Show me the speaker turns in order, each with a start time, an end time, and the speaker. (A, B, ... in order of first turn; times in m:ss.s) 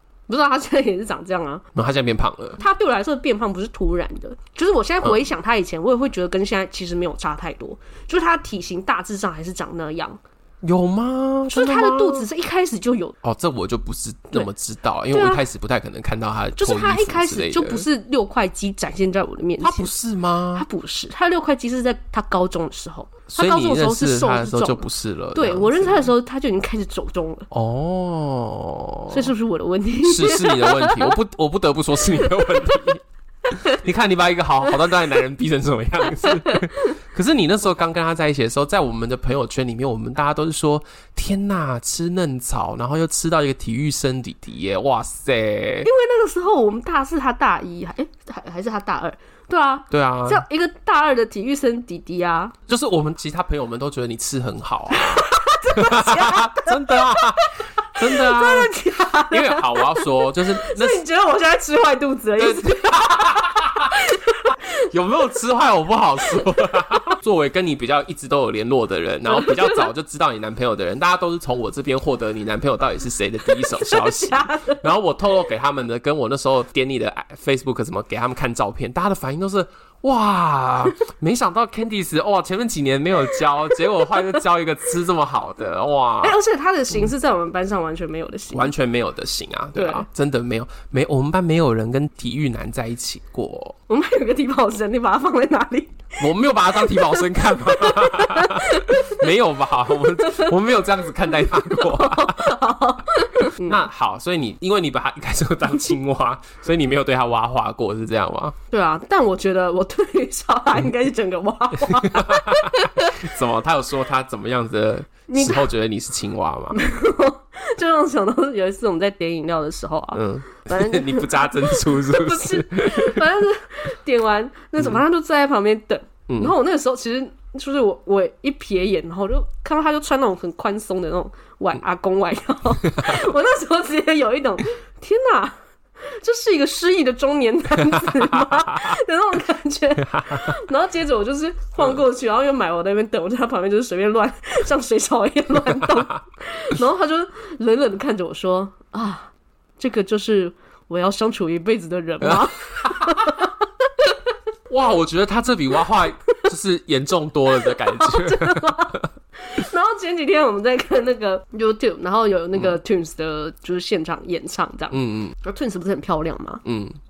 0:00.3-0:01.6 A
0:01.7-0:02.6 B
0:02.6-0:10.2 A
0:10.6-0:12.3 B
0:11.5-0:13.2 A
0:13.2-0:17.8 B
0:15.1-0:15.4 A
0:16.6-0:19.9 A
0:19.6-0:20.6 B
0:20.5-0:24.8 A
0:23.3-0:26.1 B
0:25.3-0:27.5 A
0:27.5-0:29.3 B
0:29.1-0:31.1 A
0:30.0-0:45.9 B
0:36.3-0:36.9 A
0:45.8-0:52.5 A
0:49.9-0:50.4 B
0:52.7-0:58.7 B
0:54.9-0:57.3 A
0:57.9-1:04.5 A
0:59.3-1:01.0 B
1:02.4-1:04.0 B
1:04.7-1:26.4 B
1:09.3-1:09.8 A
1:13.7-1:14.8 A
1:26.2-1:28.7 A
1:28.5-1:33.8 B
1:29.7-1:30.0 A
1:33.9-1:36.2 A
1:36.2-1:42.6 B
1:36.8-1:39.2 A
1:40.0-1:40.5 A
1:41.6-1:43.8 A
1:43.6-1:48.6 B
1:48.7-1:53.2 A
1:51.9-1:56.8 B
1:55.3-1:55.7 A
1:56.7-2:15.6 A
2:00.1-2:03.2 B
2:06.3-2:06.5 B
2:16.1-2:34.1 A
2:18.0-2:18.4 B
2:20.1-2:20.6 B
2:32.2-2:33.3 B
2:34.7-2:39.0 B
2:37.6-2:46.6 A
2:44.9-2:45.3 B
2:46.6-2:47.0 B